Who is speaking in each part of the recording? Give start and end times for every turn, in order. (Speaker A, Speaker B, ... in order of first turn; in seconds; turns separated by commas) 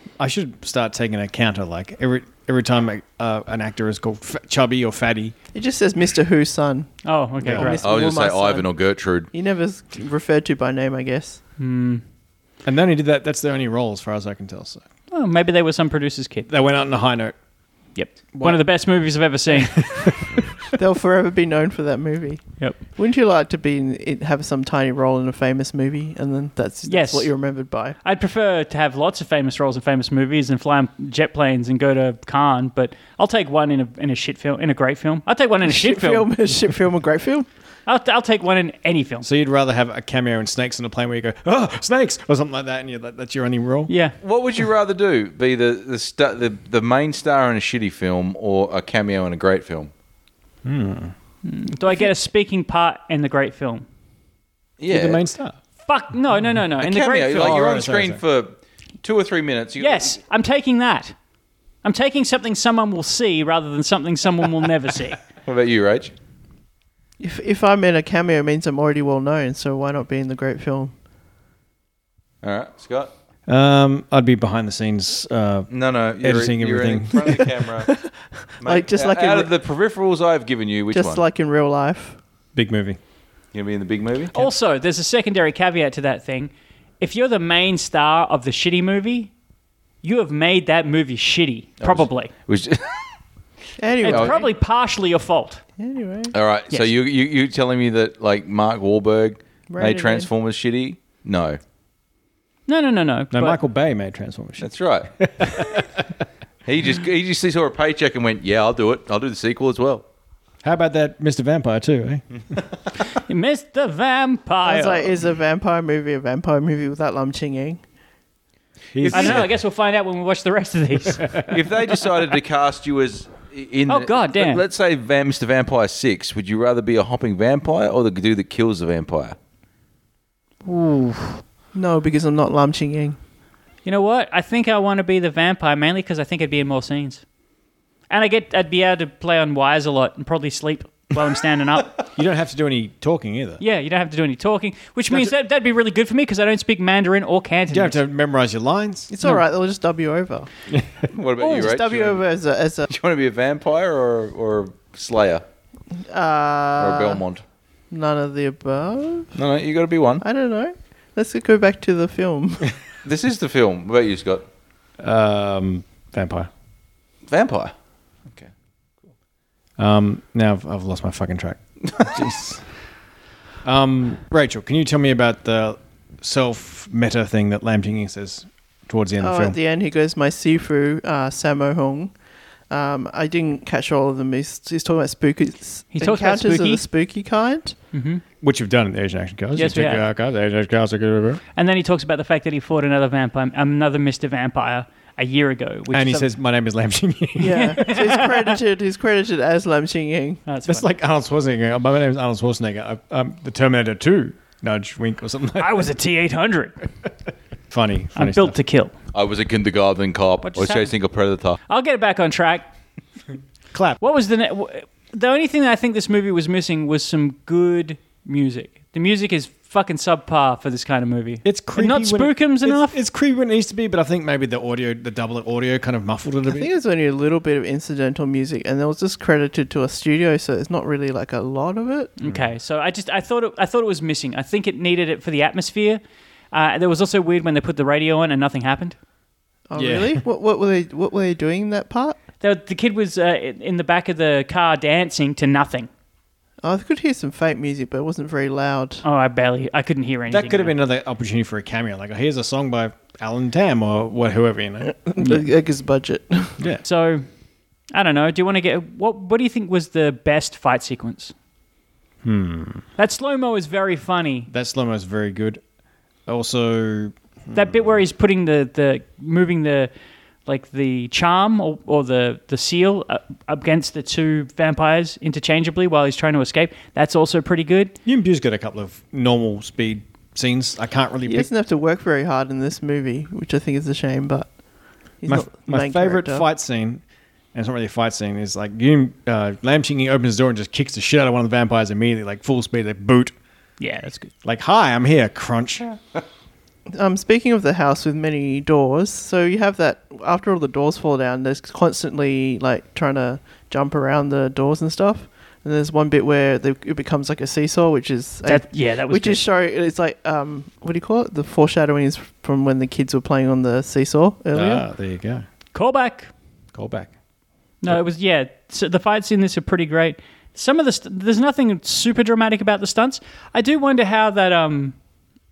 Speaker A: 0.2-5.3, Speaker B: 5.5-6.9, Speaker C: 7.0-7.8, Speaker A: 7.4-7.8, Speaker B: 7.5-8.7, Speaker D: 7.8-9.3, Speaker B: 9.3-11.4, Speaker C: 11.6-12.0, Speaker A: 12.7-14.8, Speaker C: 15.1-16.5, Speaker A: 16.5-17.4, Speaker C: 17.9-20.1, Speaker A: 18.3-18.6, Speaker A: 19.8-20.3, Speaker B: 20.7-28.0, Speaker C: 26.9-27.3, Speaker C: 28.0-36.3, Speaker B: 35.6-37.5, Speaker C: 37.9-39.3, Speaker A: 39.2-43.9, Speaker C: 43.9-44.2, Speaker D: 44.2-49.9, Speaker A: 50.6-51.1, Speaker C: 51.4-53.9, Speaker D: 54.8-55.2, Speaker A: 54.9-55.6, Speaker C: 55.9-57.6, Speaker D: 56.8-60.2, Speaker A: 57.3-58.2, Speaker C: 59.8-61.1, Speaker C: 61.8-65.2, Speaker D: 65.5-66.1, Speaker B: 67.2-70.9, Speaker D: 72.4-73.1, Speaker A: 73.5-77.5, Speaker D: 75.7-77.9, Speaker B: 77.9-79.5, Speaker D: 78.6-81.2, Speaker B: 80.9-82.2, Speaker A: 82.5-83.0, Speaker D: 83.5-84.3, Speaker C: 84.3-89.3, Speaker C: 90.0-92.3, Speaker D: 91.8-93.1, Speaker B: 93.8-94.5, Speaker D: 94.0-94.4, Speaker C: 94.0-95.6, Speaker B: 95.8-96.3, Speaker D: 96.3-101.6, Speaker B: 99.7-100.3, Speaker C: 102.7-103.6, Speaker A: 103.3-106.0, Speaker D: 104.6-105.1, Speaker D: 106.7-110.0, Speaker A: 110.6-112.6, Speaker C: 113.1-115.2, Speaker B: 114.6-117.8, Speaker A: 118.9-119.5, Speaker D: 119.0-119.4, Speaker C: 119.1-121.5, Speaker D: 121.5-129.4, Speaker C: 123.9-124.6, Speaker C: 130.7-131.4, Speaker B: 131.7-133.2, Speaker C: 133.8-137.2, Speaker C: 138.1-142.0, Speaker A: 142.1-143.6, Speaker C: 143.6-148.0, Speaker A: 145.1-145.3, Speaker A: 147.7-149.1, Speaker B: 149.1-150.5, Speaker A: 150.7-151.1, Speaker D: 151.1-152.2, Speaker B: 151.4-152.9, Speaker D: 152.9-155.4, Speaker B: 156.1-157.2, Speaker D: 156.8-157.4, Speaker B: 157.9-159.3, Speaker D: 159.3-160.2, Speaker B: 160.2-162.8, Speaker D: 163.0-164.4, Speaker A: 165.0-166.5, Speaker D: 167.3-167.7, Speaker A: 169.8-172.7, Speaker A: 173.7-179.6, Speaker B: 179.2-182.1, Speaker B: 182.7-187.8, Speaker C: 185.9-186.8, Speaker C: 187.9-188.2, Speaker A: 188.4-191.4, Speaker C: 189.6-190.1, Speaker C: 191.6-196.3, Speaker A: 195.9-198.0, Speaker B: 197.4-200.4, Speaker C: 197.5-198.5, Speaker C: 200.5-200.9, Speaker A: 200.7-205.9, Speaker C: 205.6-206.8, Speaker A: 207.7-208.6, Speaker C: 208.2-208.9, Speaker D: 209.1-211.6, Speaker C: 210.4-210.9, Speaker C: 211.7-212.7, Speaker A: 213.7-214.0, Speaker C: 214.0-223.0, Speaker A: 221.4-226.7, Speaker B: 226.5-232.1, Speaker C: 232.2-239.0, Speaker A: 232.3-232.5, Speaker B: 239.7-242.2, Speaker A: 239.8-240.2, Speaker C: 242.4-245.9, Speaker B: 246.6-249.0, Speaker C: 249.0-250.8, Speaker A: 250.3-254.9, Speaker B: 254.8-256.6, Speaker C: 256.8-257.2, Speaker C: 257.9-261.3, Speaker A: 262.2-262.9, Speaker C: 263.0-264.5, Speaker A: 264.5-265.6, Speaker A: 266.3-268.0, Speaker C: 267.5-269.9, Speaker C: 270.5-277.9, Speaker A: 278.1-281.5, Speaker B: 281.3-284.5, Speaker B: 285.2-286.5, Speaker A: 285.3-287.0, Speaker A: 287.5-293.3, Speaker C: 293.8-294.3, Speaker A: 294.4-296.0, Speaker B: 296.9-314.9, Speaker C: 308.4-309.4, Speaker A: 314.5-315.4, Speaker C: 315.7-316.3, Speaker A: 316.7-317.1, Speaker C: 317.8-325.0